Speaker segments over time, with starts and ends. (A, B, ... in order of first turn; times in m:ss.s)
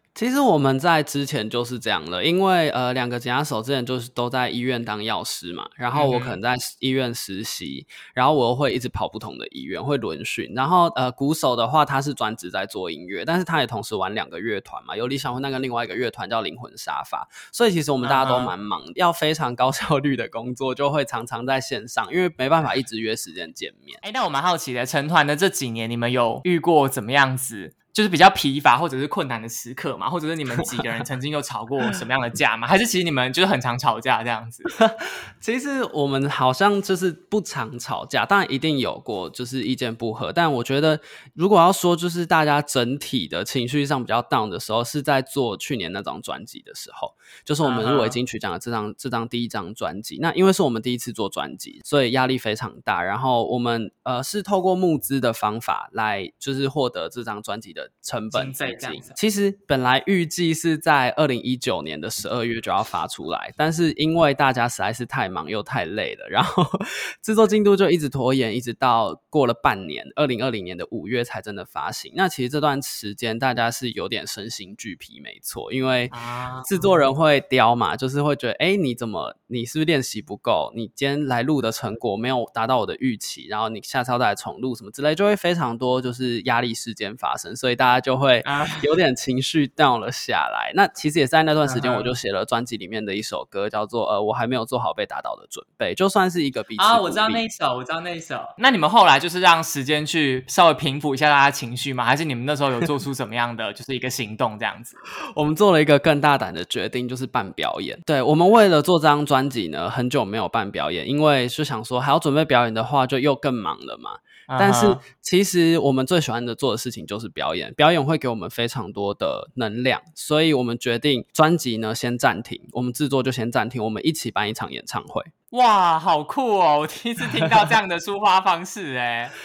0:00.2-0:24.0 A
0:05.9-0:06.4 B
0:18.0-0:18.5 B
0:24.0-0:34.7 B
0:34.7-1:16.1 A
0:47.6-0:48.2 B
0:58.3-0:59.2 B
1:16.1-1:17.0 B
1:16.7-1:37.4 A
1:28.4-1:28.9 B
1:31.6-1:32.2 B
1:36.8-1:45.0 B
1:45.3-2:05.3 A
1:54.5-1:55.0 B
2:05.5-2:09.3 B